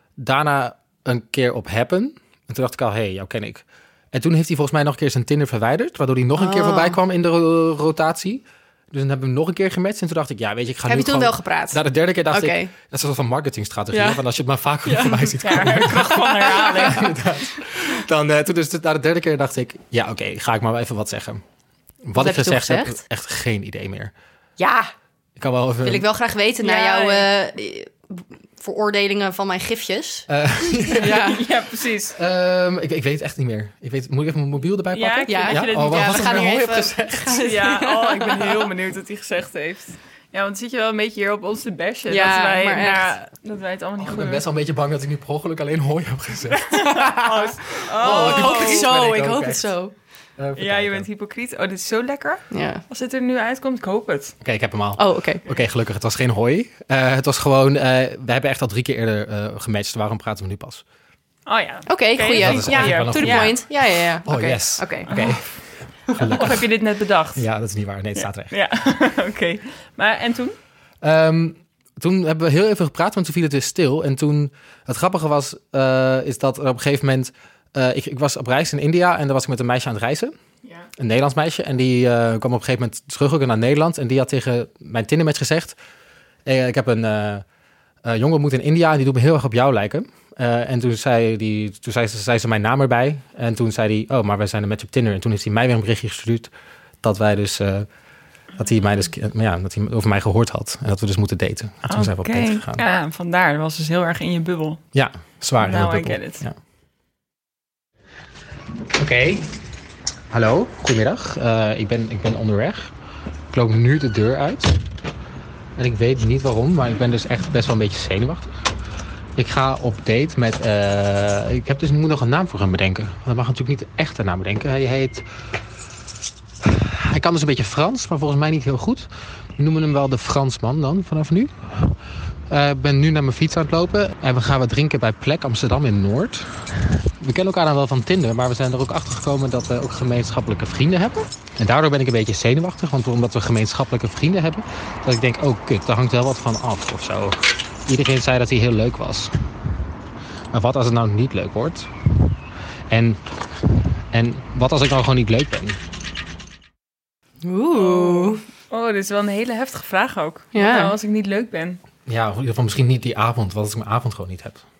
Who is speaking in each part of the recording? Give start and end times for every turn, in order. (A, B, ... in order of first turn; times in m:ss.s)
0:00.2-0:21.4 A
0:06.4-0:07.0 B
0:10.8-0:12.7 B
0:13.9-0:14.2 B
0:14.9-0:15.3 B
0:15.4-0:17.1 C
0:16.0-0:17.1 B
0:22.0-0:24.1 A
0:22.2-0:23.0 B
0:24.6-0:24.9 B
0:25.4-0:26.1 A
0:25.8-0:31.5 B
0:26.6-0:27.3 C
0:30.3-0:31.3 A
0:31.0-0:32.2 C
0:32.2-0:37.4 A
0:34.9-0:36.4 C
0:35.3-0:38.7 B
0:37.4-0:44.4 C
0:42.1-0:43.2 B
0:44.0-0:47.0 A
0:46.7-0:49.0 C
0:46.8-0:49.9 B
0:48.0-0:49.7 A
0:50.4-0:51.1 A
0:50.6-0:54.4 C
0:52.5-0:52.8 B
0:54.4-1:00.8 A
0:55.0-0:55.4 B
1:01.5-1:03.6 C
1:01.9-1:05.1 B
1:02.4-1:06.7 A
1:05.1-1:05.4 C
1:06.3-1:07.4 C
1:07.4-1:08.5 A
1:08.2-1:10.6 C
1:11.0-1:20.4 A
1:21.0-1:25.8 A
1:26.5-1:27.4 A
1:28.0-1:36.5 A
1:37.0-1:37.9 A
1:38.6-1:42.8 A
1:41.9-1:44.8 C
1:44.9-1:46.6 A
1:45.6-1:46.4 C
1:48.9-1:49.5 A
1:50.3-1:52.9 A
1:53.5-1:54.8 A
1:55.8-1:58.5 A
1:59.4-2:05.2 A
2:06.6-2:11.5 A
2:12.5-2:16.7 A
2:17.2-2:29.3 A
2:30.5-2:31.9 A
2:32.9-2:33.2 A
2:34.1-2:35.8 A
2:37.4-2:38.4 B
2:37.8-2:41.8 C
2:40.5-2:41.0 B
2:42.1-2:44.6 A